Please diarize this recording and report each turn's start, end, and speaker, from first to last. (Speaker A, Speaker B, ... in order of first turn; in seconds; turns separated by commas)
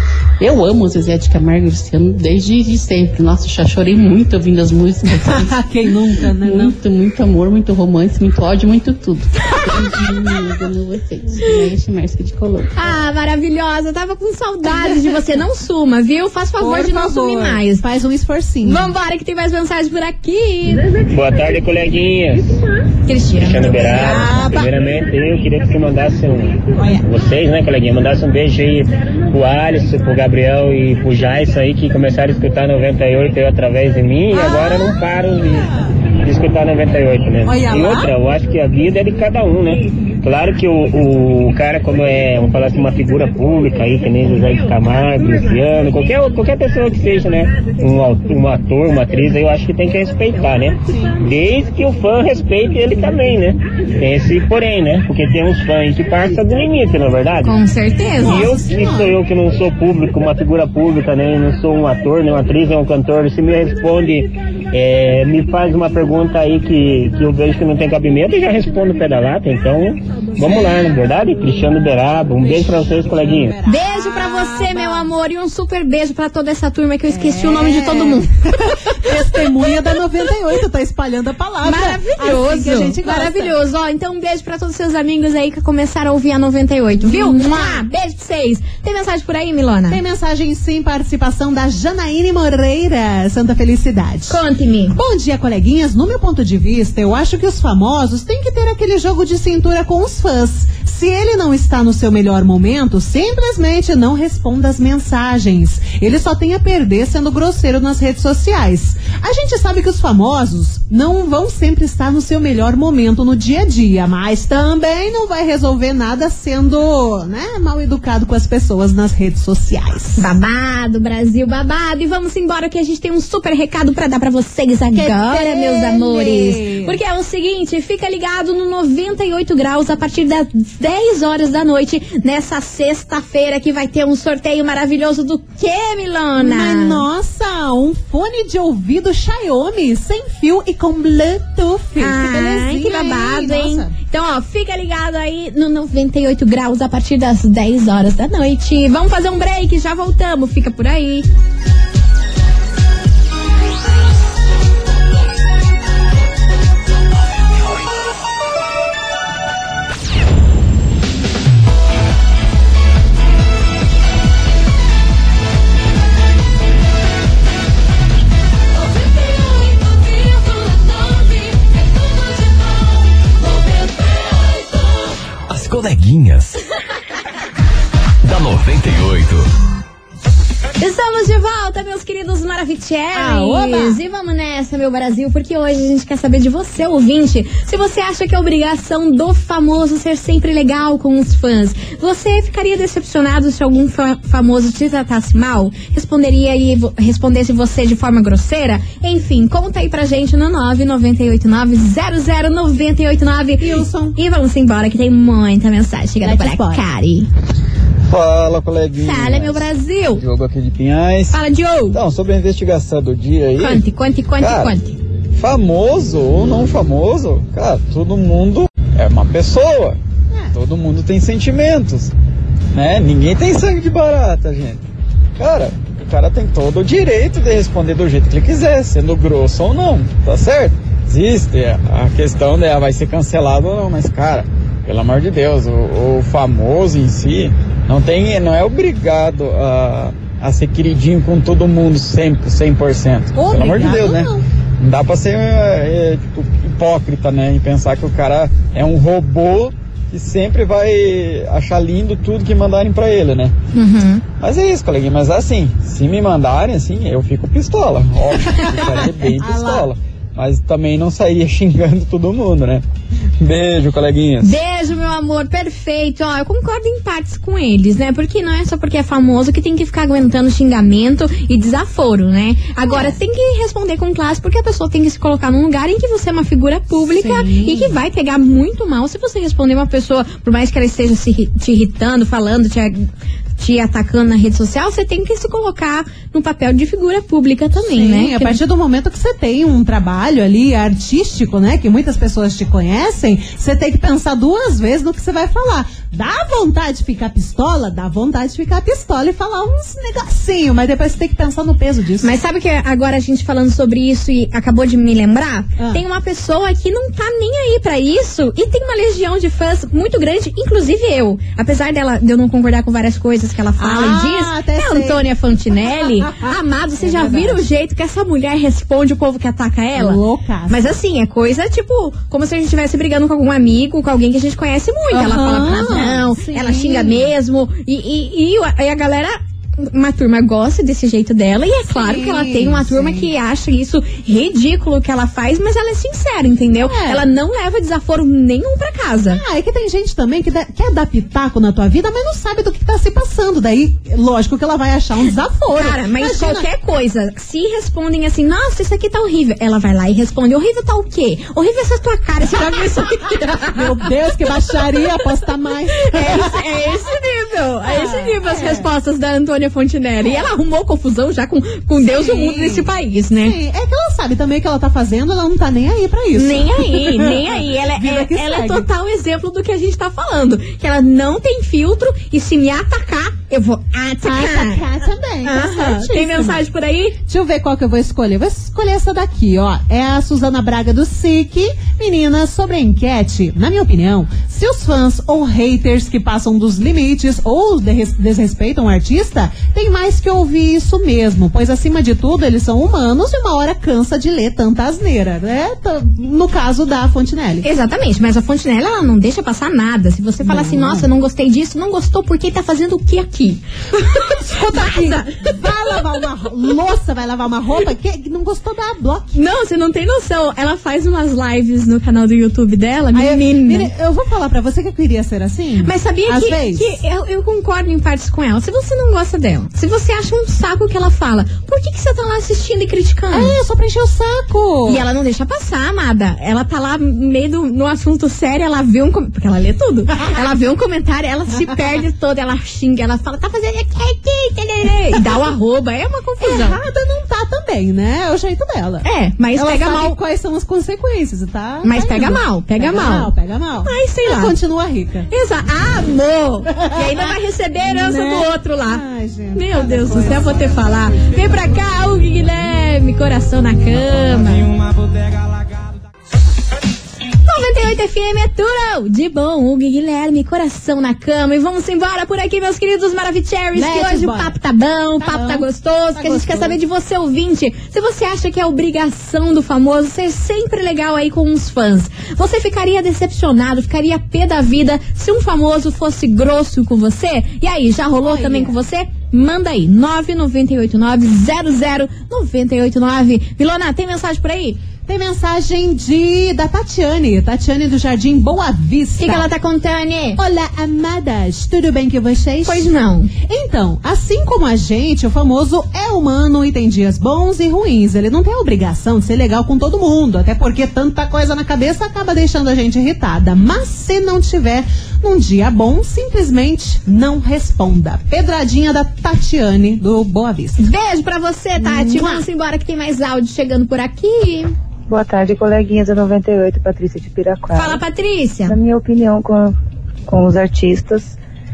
Speaker A: 0.4-5.6, Speaker B: 5.2-6.7, Speaker A: 6.1-12.9, Speaker C: 12.8-17.8, Speaker B: 14.7-15.2, Speaker B: 16.6-18.9, Speaker C: 18.6-20.9, Speaker D: 21.0-22.6, Speaker C: 23.1-24.5, Speaker D: 23.4-57.6, Speaker B: 23.8-24.7, Speaker B: 26.8-27.1, Speaker B: 34.3-36.0, Speaker B: 37.5-38.1, Speaker B: 50.9-51.1, Speaker C: 57.4-58.5, Speaker B: 58.2-59.2, Speaker D: 58.2-73.6, Speaker B: 70.4-70.9, Speaker B: 72.4-75.1, Speaker C: 73.7-79.8, Speaker B: 77.1-83.6, Speaker C: 81.6-90.0, Speaker B: 87.0-87.8, Speaker B: 89.9-94.4, Speaker C: 94.3-95.0, Speaker B: 94.9-120.3, Speaker C: 120.2-137.0, Speaker B: 124.9-127.0, Speaker B: 136.4-143.9, Speaker C: 142.0-151.3, Speaker E: 175.5-176.6, Speaker E: 178.2-179.5, Speaker C: 180.8-207.3, Speaker B: 183.1-184.0, Speaker B: 203.6-204.2, Speaker B: 206.2-206.8, Speaker F: 208.1-211.4, Speaker C: 209.0-210.2, Speaker C: 211.3-212.0, Speaker F: 211.9-213.8, Speaker C: 213.6-215.0, Speaker F: 214.4-214.7, Speaker F: 215.4-220.0, Speaker F: 220.5-222.1, Speaker F: 222.7-224.8, Speaker F: 225.4-253.5, Speaker B: 243.3-244.5, Speaker C: 253.7-254.2, Speaker F: 254.4-262.8, Speaker B: 258.4-259.9, Speaker F: 263.4-264.6, Speaker C: 264.4-283.1, Speaker B: 272.8-273.2, Speaker B: 277.1-278.0, Speaker C: 283.6-288.6, Speaker B: 287.9-302.3, Speaker C: 302.2-339.4, Speaker B: 305.8-306.0, Speaker B: 313.8-317.6, Speaker B: 319.9-320.9, Speaker B: 325.1-327.3, Speaker B: 331.9-333.3, Speaker B: 336.8-337.3, Speaker B: 339.3-346.7, Speaker C: 345.7-354.7, Speaker B: 352.6-352.8, Speaker B: 353.5-357.0, Speaker C: 356.0-363.6, Speaker B: 357.8-358.9, Speaker B: 362.0-362.9, Speaker B: 363.4-368.9, Speaker C: 366.4-377.2, Speaker B: 374.2-376.6, Speaker B: 377.3-397.7, Speaker C: 397.6-406.0, Speaker B: 400.4-401.1, Speaker B: 404.2-409.4, Speaker C: 409.3-413.9, Speaker B: 413.1-416.9, Speaker C: 415.8-423.6, Speaker B: 423.3-425.1, Speaker C: 424.9-436.8, Speaker B: 436.4-445.3, Speaker C: 439.0-440.2, Speaker C: 441.8-443.3, Speaker C: 443.9-444.5, Speaker C: 445.3-449.0, Speaker B: 446.7-451.8, Speaker C: 449.6-454.7, Speaker C: 457.4-484.8, Speaker B: 463.8-464.6, Speaker B: 465.2-466.8, Speaker B: 478.2-478.8, Speaker B: 485.1-489.5, Speaker C: 489.2-490.4, Speaker B: 490.4-510.9, Speaker C: 492.7-493.3, Speaker C: 510.8-514.7, Speaker B: 511.8-512.5, Speaker G: 515.1-518.0, Speaker C: 517.7-518.8, Speaker G: 518.7-519.7, Speaker G: 520.3-521.4